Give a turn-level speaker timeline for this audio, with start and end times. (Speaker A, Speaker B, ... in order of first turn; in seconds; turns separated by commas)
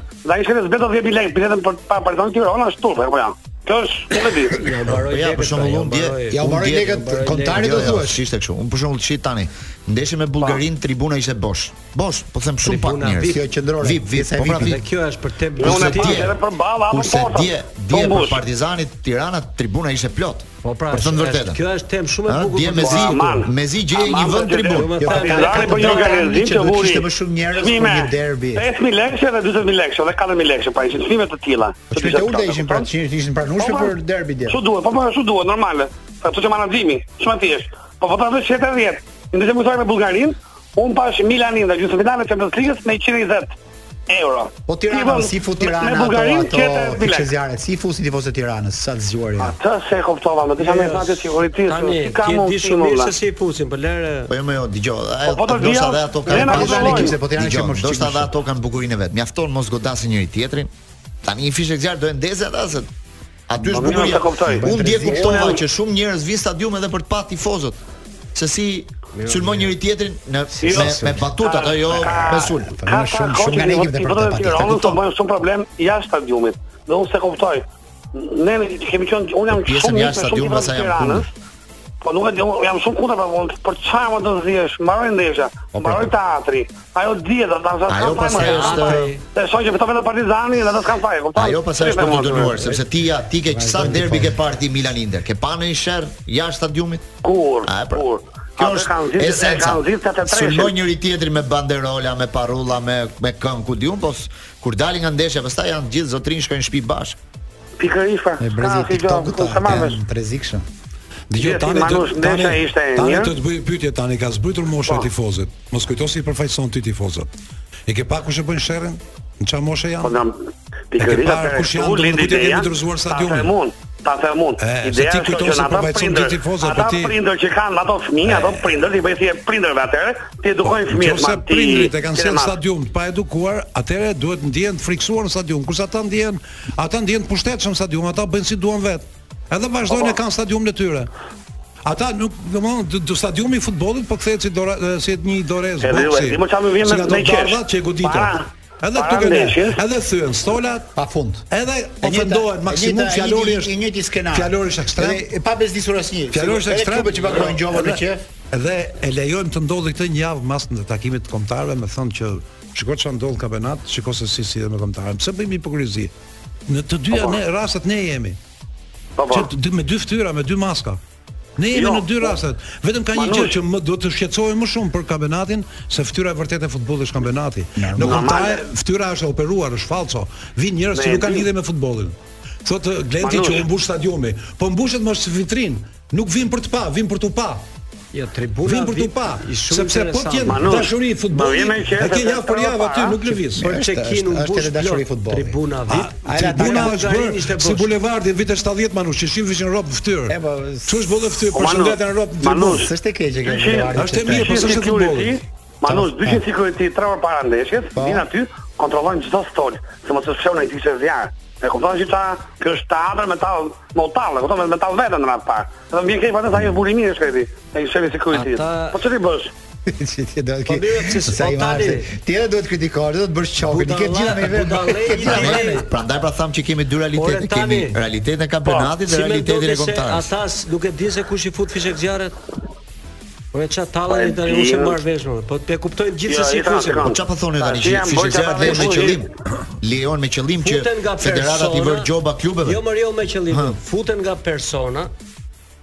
Speaker A: 0.2-4.7, Speaker B: 4.6-8.0, Speaker C: 4.9-14.8, Speaker D: 6.3-8.2, Speaker B: 12.6-16.4, Speaker D: 13.2-14.8, Speaker A: 15.6-18.4, Speaker C: 15.6-21.6, Speaker B: 20.6-23.4, Speaker C: 22.2-25.1, Speaker A: 22.8-32.9, Speaker B: 24.7-26.1, Speaker D: 25.0-28.6, Speaker D: 31.9-34.6, Speaker A: 33.6-33.9, Speaker A: 34.5-43.5, Speaker A: 44.1-47.3, Speaker D: 44.7-49.5, Speaker A: 49.4-53.1, Speaker B: 50.6-54.3, Speaker C: 54.3-60.7, Speaker A: 55.2-57.2, Speaker D: 56.3-58.3, Speaker C: 61.2-62.9, Speaker C: 63.5-67.8, Speaker A: 63.6-65.6, Speaker D: 64.5-65.4, Speaker C: 68.3-72.8, Speaker B: 69.2-69.7, Speaker D: 70.5-71.3, Speaker A: 70.6-81.3, Speaker D: 71.9-75.0, Speaker C: 79.5-81.2, Speaker A: 82.0-92.8, Speaker C: 85.7-86.1, Speaker C: 87.9-89.1, Speaker B: 88.4-89.2, Speaker C: 91.3-97.1, Speaker D: 93.4-94.4, Speaker A: 97.2-100.8, Speaker C: 97.7-98.0, Speaker C: 98.6-107.2, Speaker A: 107.8-110.0, Speaker D: 108.4-110.7, Speaker E: 111.3-117.3, Speaker A: 111.3-113.3, Speaker E: 117.9-120.2, Speaker A: 120.0-132.6, Speaker E: 121.0-123.5, Speaker E: 124.6-127.2, Speaker E: 128.2-128.8, Speaker E: 130.6-141.1, Speaker A: 139.9-140.2, Speaker E: 141.8-150.9, Speaker A: 145.8-149.8, Speaker D: 150.9-151.4, Speaker E: 151.5-153.7, Speaker D: 152.0-158.2, Speaker E: 154.3-155.2, Speaker E: 156.3-166.1, Speaker E: 166.7-168.4, Speaker A: 167.1-167.4, Speaker A: 169.2-169.5, Speaker E: 169.3-171.0, Speaker E: 171.6-187.7, Speaker A: 171.7-172.4, Speaker A: 173.1-173.6, Speaker D: 177.8-178.3, Speaker A: 178.0-178.6, Speaker A: 180.9-181.5, Speaker A: 183.2-183.7, Speaker B: 188.1-190.8, Speaker E: 188.6-193.7, Speaker A: 190.4-193.2, Speaker D: 193.5-195.6, Speaker B: 193.6-197.9, Speaker E: 195.9-202.9, Speaker D: 196.2-197.0, Speaker D: 200.3-201.1, Speaker A: 201.5-202.9, Speaker D: 202.7-204.6, Speaker A: 203.4-219.5, Speaker E: 203.9-205.4, Speaker D: 205.8-206.4, Speaker D: 207.9-208.3, Speaker B: 218.3-219.0, Speaker D: 219.8-225.8, Speaker B: 220.7-222.1, Speaker B: 223.7-225.9, Speaker C: 225.2-230.3, Speaker B: 227.1-228.0, Speaker A: 228.6-228.9, Speaker B: 229.0-232.3, Speaker B: 233.5-237.1, Speaker A: 234.1-235.0, Speaker A: 236.2-239.3, Speaker C: 237.0-242.8, Speaker B: 240.6-242.1, Speaker B: 242.6-245.1